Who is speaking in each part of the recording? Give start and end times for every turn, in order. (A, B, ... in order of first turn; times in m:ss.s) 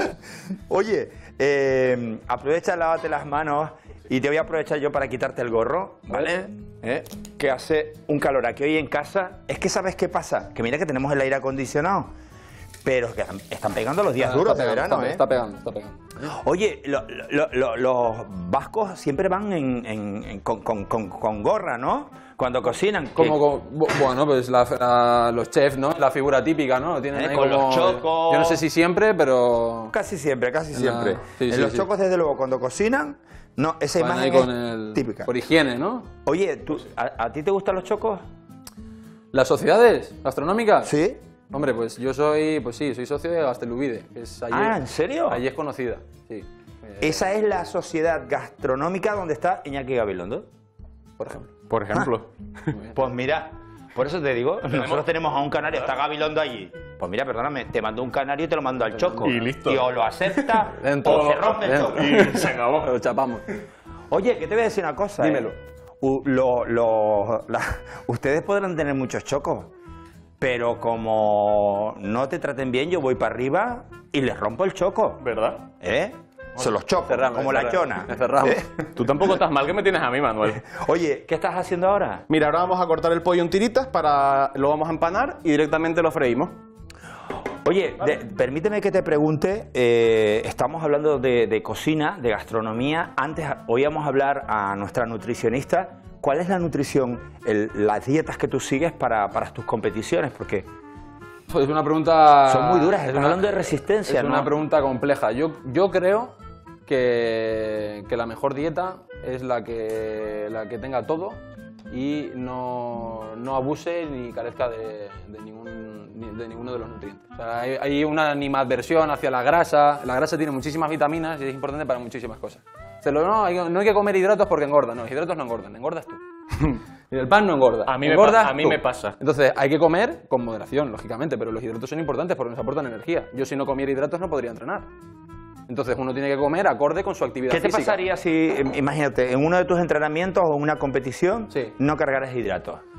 0:00.5-0:12.1 A
0:12.8-0:15.2 A
0:14.2-0:16.3 B
0:16.2-0:23.4 A
0:23.2-0:29.9 B
0:27.2-0:28.6 A
0:29.9-0:35.3 A
0:30.7-0:31.9 B
0:34.0-0:36.1 B
0:36.2-0:38.2 A
0:39.3-0:40.9 B
0:40.8-0:41.2 A
0:41.5-0:47.2 B
0:44.5-0:45.4 A
0:47.0-0:50.5 A
0:51.2-0:51.5 B
0:51.7-0:52.3 C
0:52.9-1:02.3 A
0:54.7-0:55.0 C
0:58.9-0:59.3 B
0:59.2-0:59.9 C
1:00.8-1:03.4 B
1:01.0-1:02.9 C
1:04.1-1:09.7 A
1:05.2-1:05.6 B
1:10.4-1:15.2 A
1:15.2-1:15.6 C
1:15.8-1:18.9 A
1:17.1-1:18.6 B
1:19.0-1:20.6 C
1:20.5-1:22.2 A
1:22.3-1:26.6 C
1:27.6-1:40.7 A
1:41.5-1:46.4 B
1:42.5-1:44.5 A
1:46.9-2:06.2 B
2:07.1-2:14.9 B
2:07.8-2:09.1 C
2:15.7-2:18.0 B
2:17.5-2:22.8 A